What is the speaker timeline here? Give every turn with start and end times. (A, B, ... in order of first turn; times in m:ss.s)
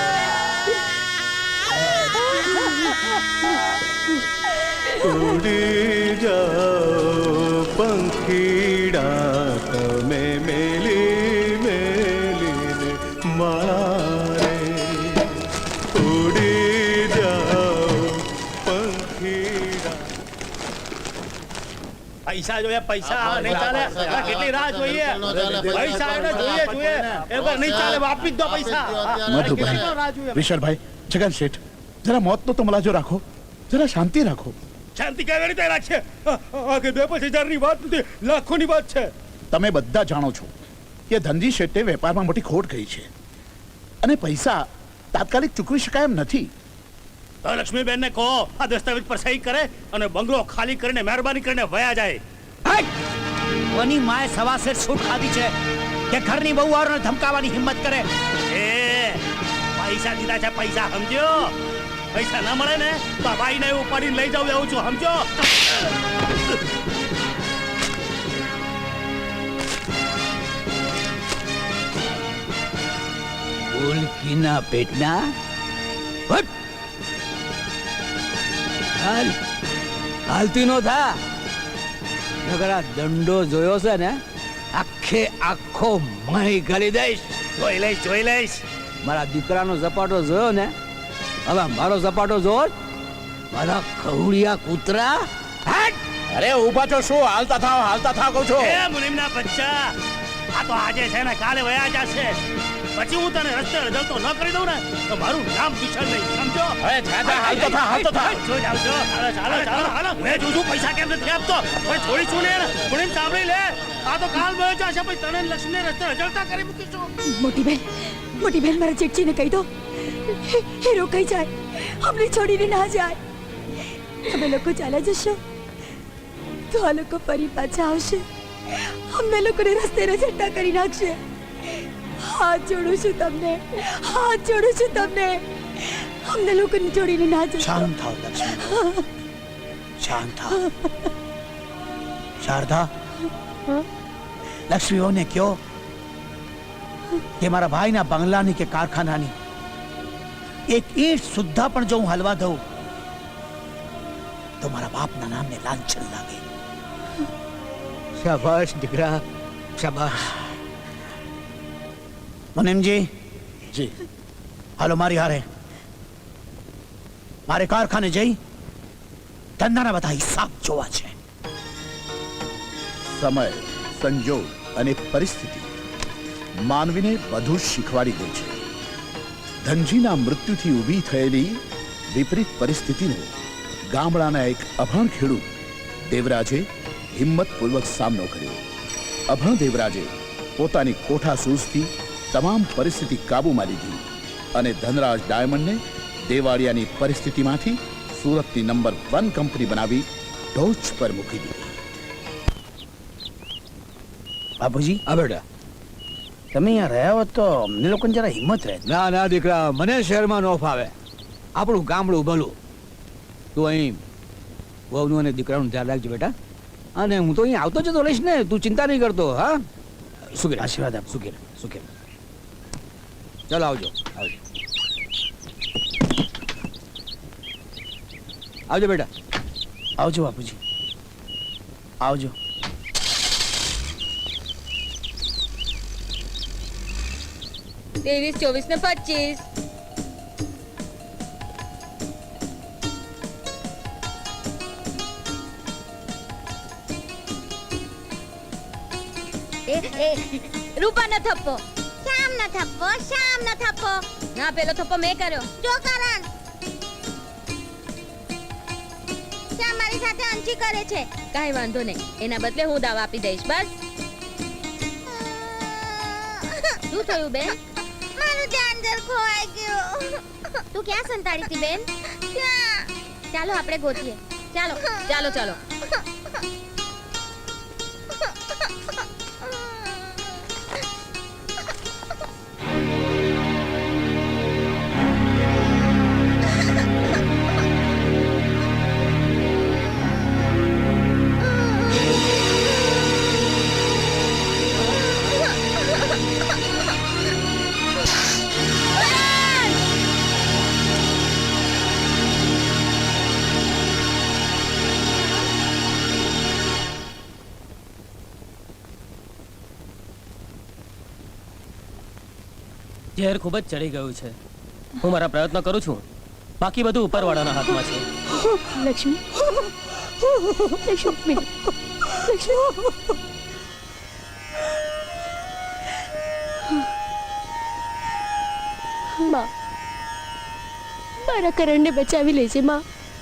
0:05.0-0:15.3 A
0:15.9-0:20.0 A
0:22.3-0:30.5 B
0:29.2-0:34.5 C
0:35.0-0:39.1 B
0:39.5-0:40.5 C
0:41.1-0:43.1 C
0:44.0-0:46.5 C
0:47.4-0:52.2 B
0:53.7-0:55.5 D
0:56.1-0:58.1 D
0:58.5-0:59.2 B
0:59.8-1:01.5 B
1:02.1-1:05.8 B
1:13.7-1:15.3 E
1:19.0-1:19.4 E
1:20.3-1:21.2 E
1:22.4-1:24.2 E
1:24.7-1:27.4 E
1:27.6-1:28.6 B
1:29.0-1:30.7 E
1:31.4-1:32.7 E
1:33.5-1:36.0 E
1:36.3-1:38.8 C
1:38.6-1:40.0 B
1:40.5-1:42.4 B
1:42.9-1:46.8 B
1:46.8-1:48.4 C
1:47.2-1:48.4 E
1:48.2-1:57.1 B
1:57.2-2:03.2 F
2:04.2-2:05.4 F
2:06.7-2:08.2 F
2:09.1-2:11.2 F
2:12.2-2:17.9 F
2:17.6-2:18.8 D
2:18.5-2:19.0 F
2:20.0-2:20.6 D
2:22.4-2:22.9 D
2:24.7-2:25.6 D
2:27.4-2:29.3 D
2:30.7-2:32.6 D
2:34.6-2:36.4 D
2:38.2-2:39.2 E
2:39.8-2:40.4 E
2:42.5-2:43.1 D
2:44.8-2:45.4 D
2:47.5-2:48.4 D
2:49.6-2:51.1 D
2:53.1-2:55.7 C
2:56.6-2:58.6 C
2:59.6-3:03.3 C
3:03.9-3:05.5 C
3:06.1-3:08.6 C
3:09.3-3:14.0 C
3:14.5-3:21.7 C
3:24.6-3:25.0 D
3:25.0-3:25.4 E
3:26.5-3:28.8 D
3:28.8-3:30.9 E
3:31.6-3:32.6 E
3:33.5-3:34.0 E
3:34.9-3:36.3 E
3:37.0-3:39.6 E
3:40.3-3:41.8 E
3:40.6-3:41.2 D
3:43.5-3:44.4 E
3:48.7-3:49.1 E
3:50.0-3:50.6 D
3:52.0-3:52.3 D
3:58.0-3:59.4 G
4:09.6-4:16.3 G
4:19.6-4:23.8 G
4:25.1-4:27.6 G
4:28.1-4:35.6 G
4:59.2-4:59.6 G
5:13.2-5:14.4 H
5:15.0-5:16.0 H
5:16.6-5:18.0 H
5:18.4-5:19.6 F
5:20.4-5:21.5 F
5:22.1-5:22.9 F
5:31.2-5:32.8 F